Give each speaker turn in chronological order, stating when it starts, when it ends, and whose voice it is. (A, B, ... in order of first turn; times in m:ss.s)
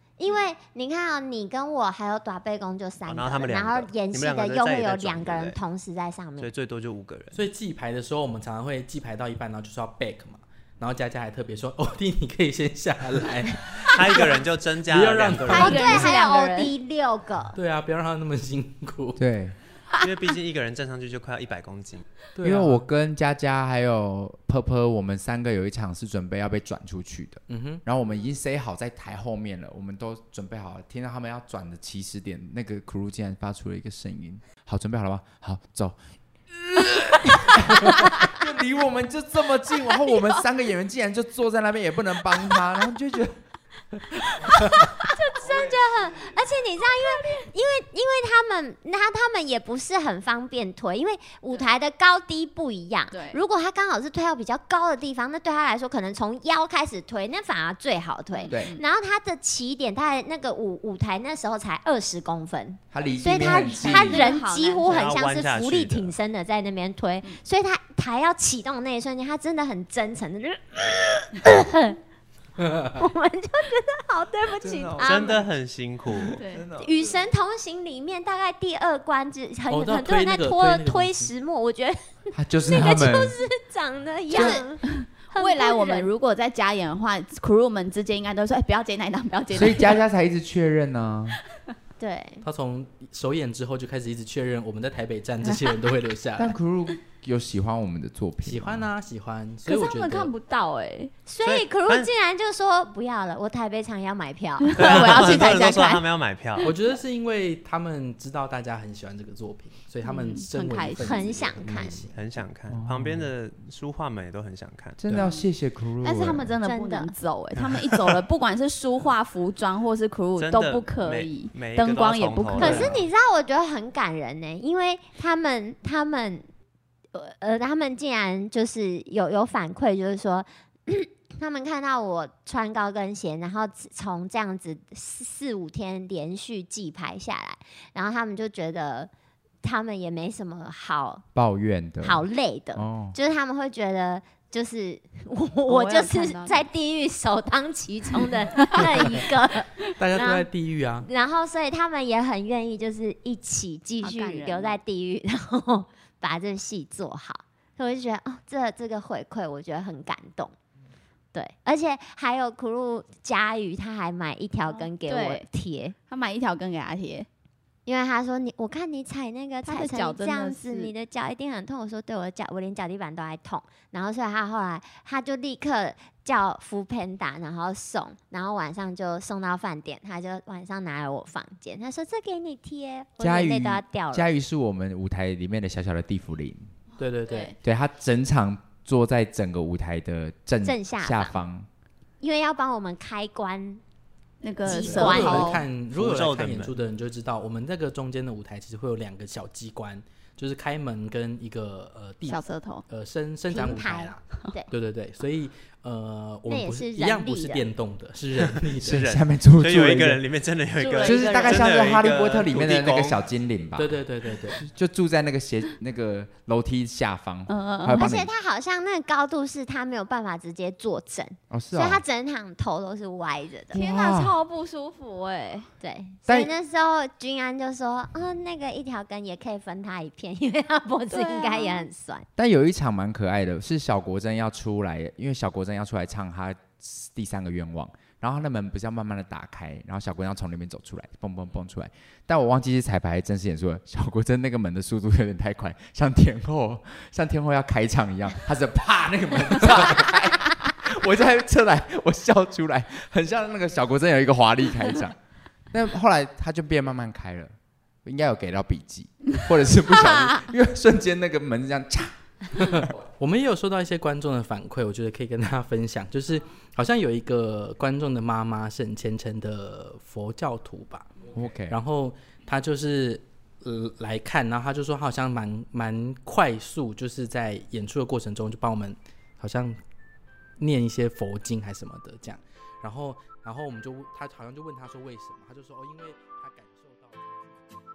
0:00.2-0:06.5 A
0:03.0-0:05.6 B
0:06.4-0:07.4 B
0:07.3-0:16.1 C
0:13.9-0:15.8 B
0:15.5-0:17.6 A
0:15.5-0:16.7 D
0:17.5-0:19.2 C
0:19.2-0:19.6 E
0:20.0-0:22.1 B
0:22.4-0:22.8 C
0:22.4-0:36.0 E
0:27.5-0:27.8 C
0:36.5-0:43.4 E
0:44.5-1:12.0 A
0:46.9-0:47.4 D
0:53.1-0:53.4 D
0:58.3-0:58.8 D
0:58.5-0:58.8 E
1:02.9-1:04.2 E
1:03.4-1:05.2 D
1:04.8-1:06.1 B
1:12.6-1:12.9 C
1:12.9-1:15.4 A
1:14.6-1:15.4 E
1:15.0-1:16.4 B
1:16.2-1:17.1 E
1:16.4-1:16.6 D
1:16.8-1:26.1 A
1:19.7-1:21.3 C
1:22.3-1:23.4 E
1:24.3-1:30.0 D
1:29.5-1:31.4 E
1:32.0-1:32.4 A
1:32.4-1:36.5 C
1:36.4-1:38.9 E
1:38.4-1:40.3 C
1:39.6-1:41.1 D
1:41.3-1:46.0 A
1:41.4-1:42.1 B
1:44.6-1:46.0 D
1:44.8-1:46.7 B
1:46.6-1:52.2 C
1:50.0-1:51.2 D
1:51.0-1:52.0 A
1:52.1-1:55.0 B
1:52.7-1:53.3 E
1:55.0-1:56.5 E
1:56.0-2:02.9 D
1:56.6-1:57.1 A
1:57.6-1:58.0 B
2:00.4-2:03.0 B
2:02.6-2:06.4 A
2:07.1-2:19.1 A
2:19.6-2:21.2 A
2:21.3-2:22.2 E
2:22.0-2:30.5 A
2:22.8-2:23.1 E
2:25.7-2:26.6 D
2:30.0-2:31.1 C
2:31.0-2:40.5 A
2:34.0-2:34.8 D
2:41.3-2:45.9 A
2:44.7-2:45.4 D
2:46.1-2:47.3 D
2:47.8-3:04.3 A
2:49.6-2:50.9 D
3:03.2-3:06.7 E
3:07.0-3:07.5 C
3:07.3-3:07.5 D
3:07.6-3:11.7 E
3:10.6-3:11.4 A
3:12.2-3:13.8 A
3:14.4-3:15.7 D
3:14.6-3:15.6 A
3:14.7-3:29.0 C
3:15.8-3:16.8 B
3:22.2-3:22.8 D
3:23.5-3:24.7 A
3:26.5-3:27.6 A
3:28.8-3:33.2 B
3:28.8-3:30.2 E
3:30.8-3:31.8 D
3:31.0-3:38.3 E
3:33.8-3:34.6 C
3:37.5-3:38.1 D
3:38.0-3:43.8 A
3:41.5-3:42.0 E
3:43.7-3:44.3 E
3:43.7-3:45.7 D
3:45.8-3:52.3 A
3:46.3-3:46.5 E
3:51.1-3:51.9 D
3:52.4-4:15.2 E
4:15.7-4:22.2 E
4:22.6-4:31.1 C
4:31.3-4:31.8 E
4:31.7-4:39.8 C
4:40.6-4:47.6 C